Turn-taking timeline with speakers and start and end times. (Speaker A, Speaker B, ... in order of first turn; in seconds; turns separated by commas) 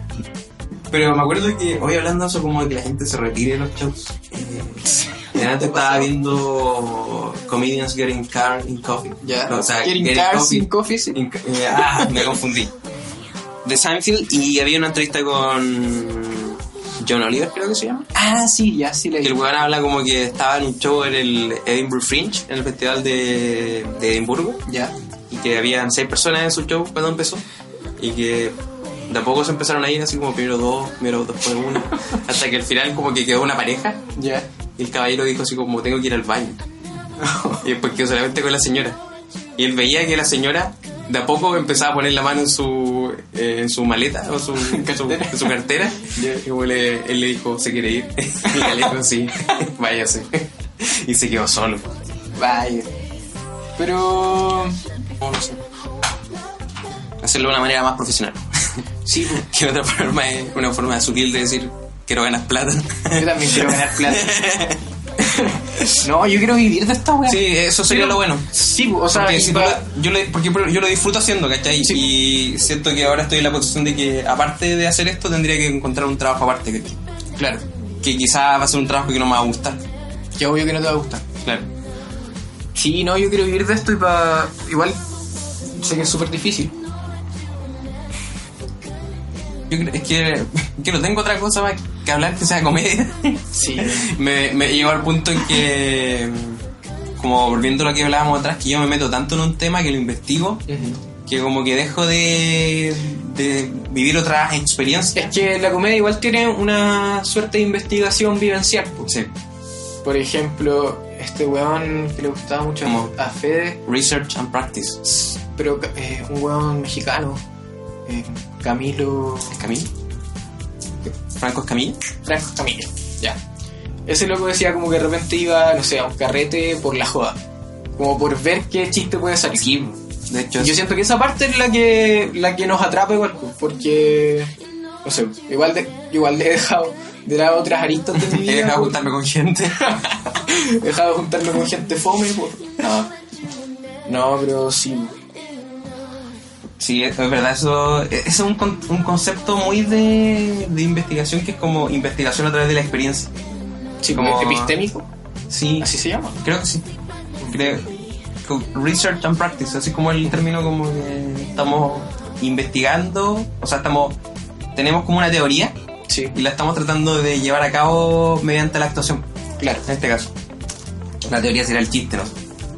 Speaker A: 0.9-12.7, Speaker B: 5.3-6.1, Speaker B: 9.2-11.2, Speaker B: 11.8-12.2, Speaker A: 13.6-18.1, Speaker B: 18.1-19.4, Speaker A: 19.2-24.6, Speaker B: 24.7-24.9, Speaker A: 25.3-27.4, Speaker A: 28.0-28.6, Speaker A: 29.1-34.0, Speaker B: 34.1-34.5, Speaker A: 34.8-36.6, Speaker B: 37.2-37.7, Speaker A: 37.6-39.0, Speaker A: 39.6-51.9, Speaker B: 44.6-45.5, Speaker B: 46.1-46.4, Speaker B: 48.6-48.9, Speaker B: 52.4-52.9, Speaker B: 53.8-54.8, Speaker A: 55.2-55.6, Speaker A: 57.2-64.8, Speaker B: 59.1-59.5, Speaker B: 63.2-64.4, Speaker B: 65.2-69.8, Speaker A: 67.3-68.5, Speaker A: 69.1-77.0, Speaker B: 77.4-77.6, Speaker A: 78.0-79.8, Speaker B: 80.4-81.2, Speaker A: 81.4-81.7, Speaker B: 82.8-85.0, Speaker B: 85.7-86.8, Speaker A: 89.7-96.6, Speaker B: 93.5-94.1, Speaker A: 97.2-100.7, Speaker B: 100.7-101.0, Speaker A: 101.3-105.3, Speaker B: 105.2-109.1, Speaker A: 109.1-109.3, Speaker B: 110.0-113.8, Speaker A: 112.8-113.1, Speaker A: 113.8-115.0, Speaker B: 115.0-117.4, Speaker B: 118.1-119.6, Speaker A: 119.5-119.9, Speaker A: 121.4-122.0, Speaker B: 122.2-123.4, Speaker B: 124.1-127.4, Speaker B: 128.0-129.7, Speaker A: 129.5-130.8, Speaker B: 130.6-139.0, Speaker A: 138.2-139.9, Speaker B: 139.8-143.1, Speaker B: 144.1-145.2, Speaker A: 146.8-153.3, Speaker B: 154.0-155.1, Speaker A: 154.1-154.8, Speaker A: 155.5-156.9, Speaker B: 155.8-156.4, Speaker A: 157.5-157.9, Speaker A: 158.4-164.2, Speaker A: 164.8-165.8, Speaker B: 166.1-166.3, Speaker A: 166.3-169.2, Speaker B: 169.6-169.8, Speaker A: 169.8-170.3, Speaker A: 171.2-172.3